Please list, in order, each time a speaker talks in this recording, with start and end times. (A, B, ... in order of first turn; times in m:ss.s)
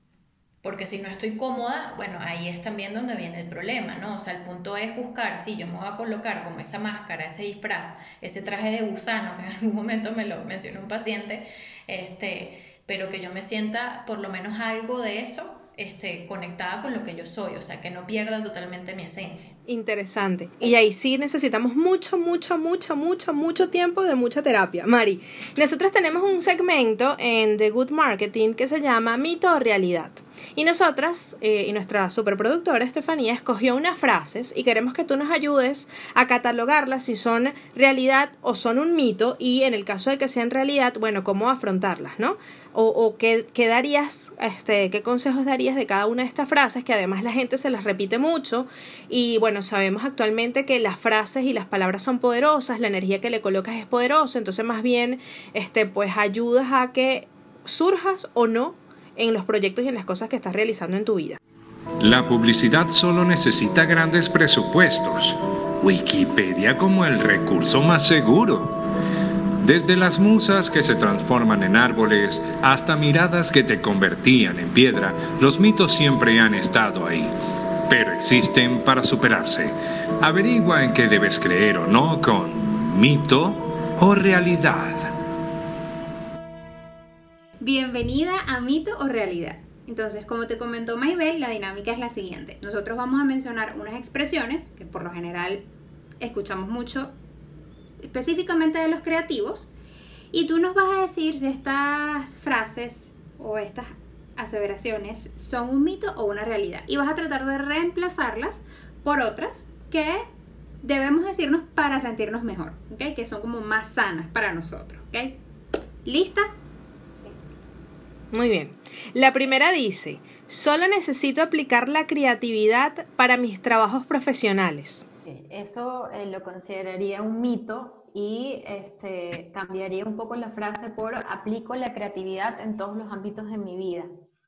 0:00.6-0:19.6 A
0:19.7-1:01.4 B
1:02.0-1:08.7 C
1:09.6-1:17.3 C
1:17.9-1:25.1 C
1:27.6-1:35.6 D
1:36.2-1:37.1 D
1:38.0-1:39.7 D
1:40.3-1:50.2 D
1:50.8-1:55.4 D
1:56.0-1:56.5 D
1:58.3-2:05.0 B
2:05.2-2:14.1 E